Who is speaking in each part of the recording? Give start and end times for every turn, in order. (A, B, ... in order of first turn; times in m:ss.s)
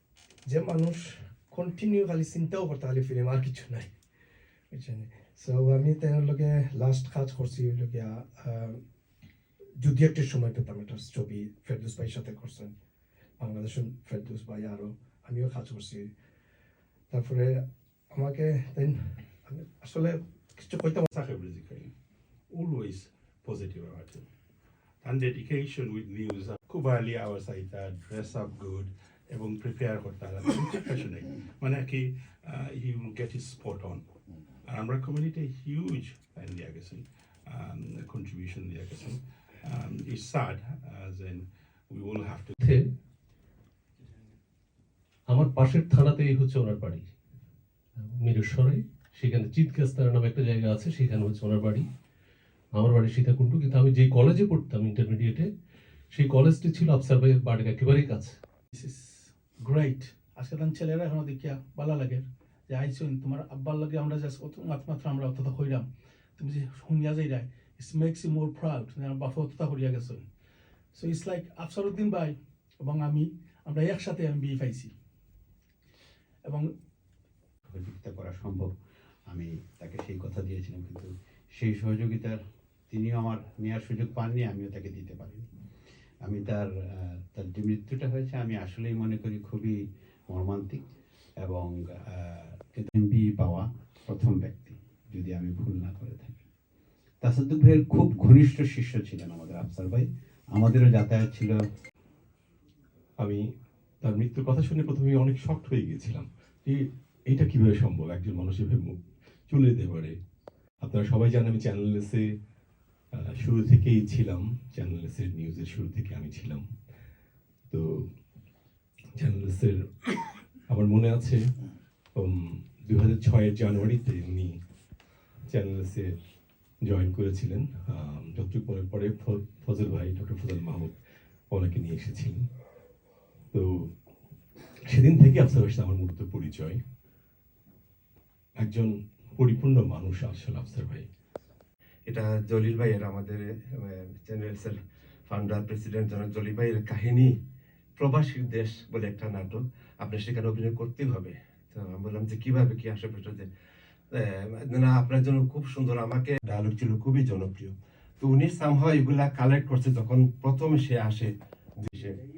0:00.5-0:03.9 A
0:04.7-0:08.8 A
0:09.8-0:12.7 A
0:13.4-0:16.0 A
0:17.1-0:17.5 A
0:18.2-0:18.9 A
0:19.5-0:21.0 A
0:21.0-0:21.9 B
0:22.5-0:24.3 B
0:25.0-0:34.0 B
0:34.7-0:42.6 B
0:45.3-0:47.0 C
0:48.2-0:51.8 C
0:52.8-0:55.4 C
0:56.1-0:58.3 C
0:58.7-1:05.8 D
1:06.4-1:10.2 D
1:10.9-1:14.9 D
1:17.7-1:18.7 E
1:19.3-1:22.4 E
1:22.9-1:25.5 E
1:26.2-1:30.8 E
1:31.4-1:36.4 E
1:37.2-1:41.6 E
1:44.0-1:46.8 F
1:47.3-1:49.0 F
1:49.5-1:50.1 F
1:50.8-1:52.2 F
1:53.2-1:56.6 F
1:59.2-1:59.8 F
2:00.7-2:01.4 F
2:02.9-2:04.5 F
2:05.5-2:06.0 F
2:06.9-2:10.9 F
2:11.5-2:12.4 F
2:14.9-2:16.8 F
2:18.6-2:21.0 F
2:22.1-2:27.3 G
2:28.0-2:33.5 G
2:34.1-2:42.2 G